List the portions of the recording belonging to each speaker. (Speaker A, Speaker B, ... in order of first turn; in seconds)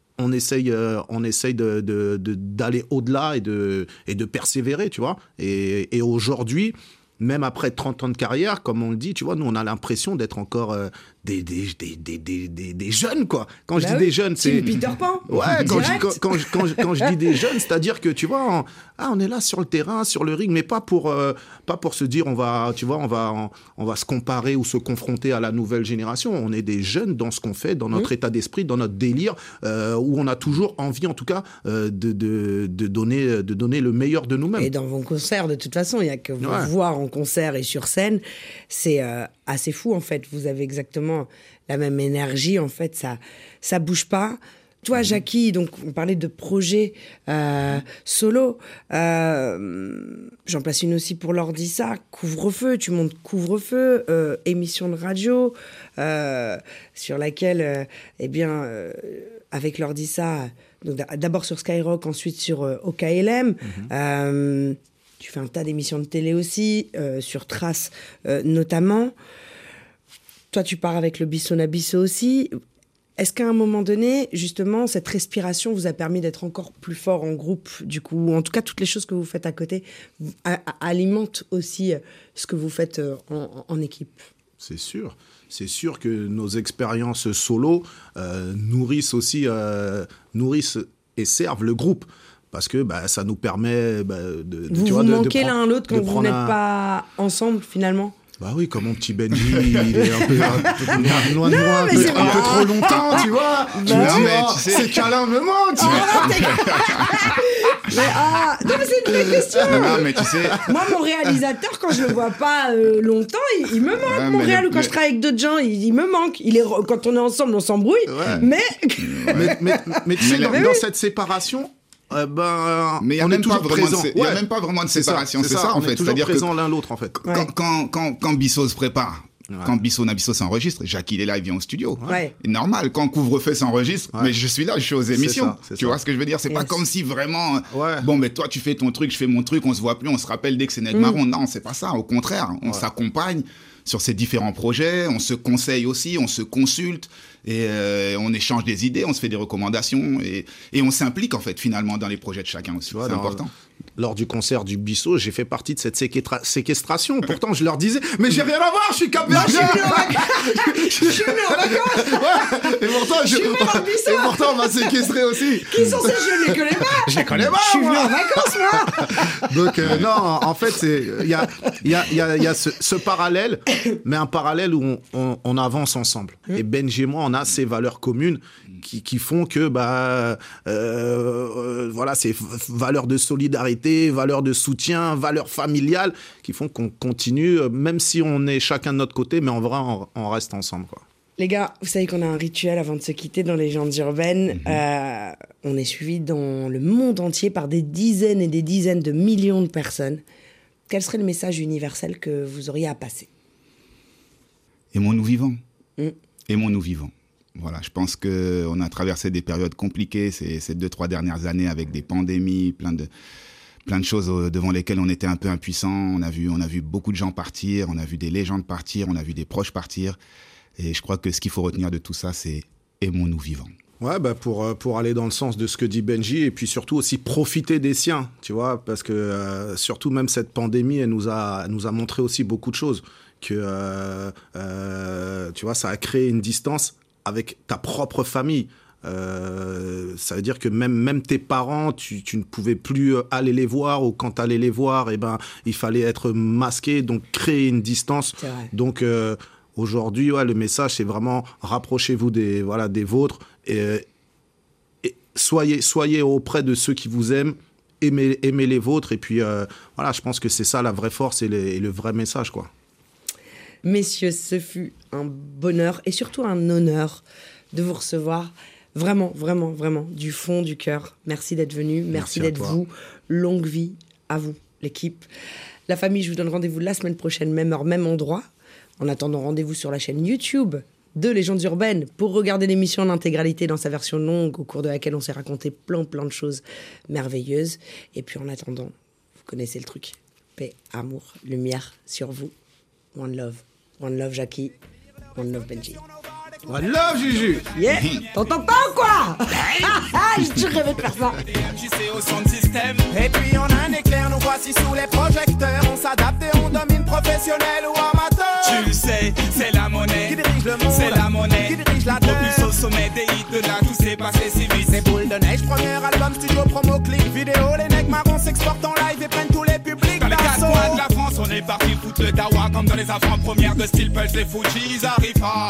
Speaker A: 0.2-14.8, 15.3-34.7, 36.4-36.7, 84.6-96.5, 98.4-107.0, 107.9-108.2, 109.7-110.5, 118.1-118.5, 119.3-127.2, 135.1-136.0, 137.7-138.1, 152.9-191.0, 224.0-254.0, 255.0-262.7, 272.1-272.8, 296.7-297.6
Speaker B: 13.8-17.1, 34.5-69.1, 70.5-72.5, 73.2-84.2, 94.7-98.2, 100.1-104.8, 105.8-120.8, 132.1-132.3, 136.5-136.8, 140.9-141.2, 159.3-169.4, 191.4-200.2, 200.9-203.3, 248.4-248.7, 263.8-275.2, 275.9-278.4, 279.0-288.9, 289.4-292.5, 293.1-294.7, 295.3-296.0, 297.7-301.4
Speaker C: 99.5-99.8, 102.0-103.2, 103.8-105.0, 105.8-107.3, 109.6-110.7, 113.9-114.9, 119.0-119.5, 120.2-120.6, 123.0-126.5, 127.2-153.5, 204.9-205.6, 206.5-213.1, 213.8-220.2, 220.8-223.7, 297.9-298.3
Speaker D: 303.1-308.9, 310.1-312.9, 314.8-321.0
Speaker E: 308.6-309.6, 310.9-312.7, 320.2-321.2, 322.8-323.2